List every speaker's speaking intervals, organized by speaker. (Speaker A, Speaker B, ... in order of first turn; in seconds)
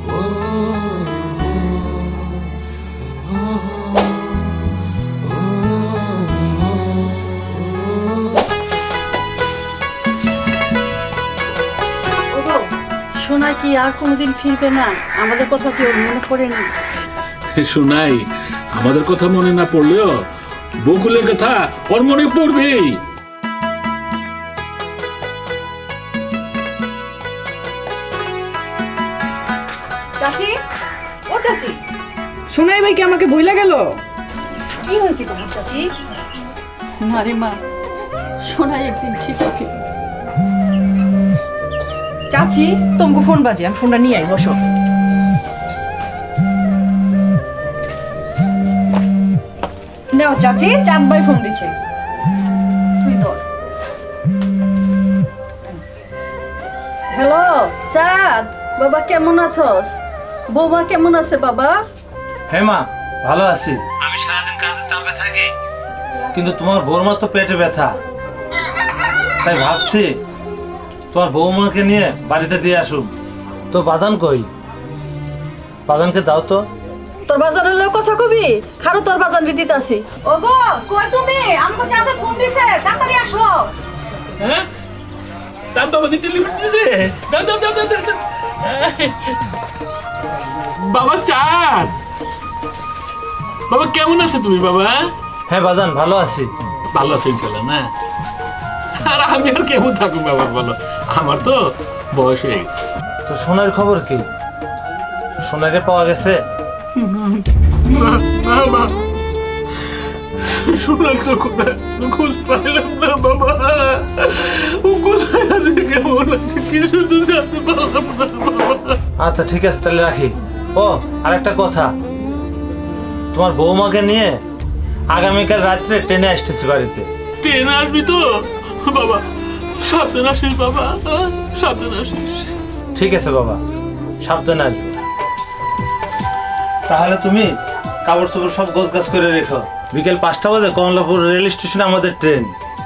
Speaker A: 12.3-12.7, 13.2-16.7, 34.8-35.9, 37.0-37.6, 38.4-39.8, 53.0-53.4, 57.1-59.9, 60.5-61.8, 77.3-80.3, 80.9-81.3, 82.0-83.6
Speaker B: 17.6-20.2, 20.8-23.0, 84.4-84.7, 85.7-89.3, 90.9-92.0, 93.7-95.1, 96.9-97.9, 99.0-102.8, 107.9-108.9, 110.6-119.0, 127.4-128.3, 128.8-129.2, 129.8-132.5
Speaker C: 30.2-30.6, 31.3-31.8, 32.5-34.0, 42.3-44.6, 50.1-51.7, 80.3-82.8
Speaker D: 62.5-65.5, 66.3-68.0, 69.4-70.1, 71.1-73.1, 73.7-74.5, 75.9-76.7, 95.5-96.5, 103.3-104.2, 105.4-106.4, 119.2-121.9, 123.3-124.4, 125.1-127.1, 133.0-133.6, 134.2-134.9, 136.9-137.5, 138.1-142.5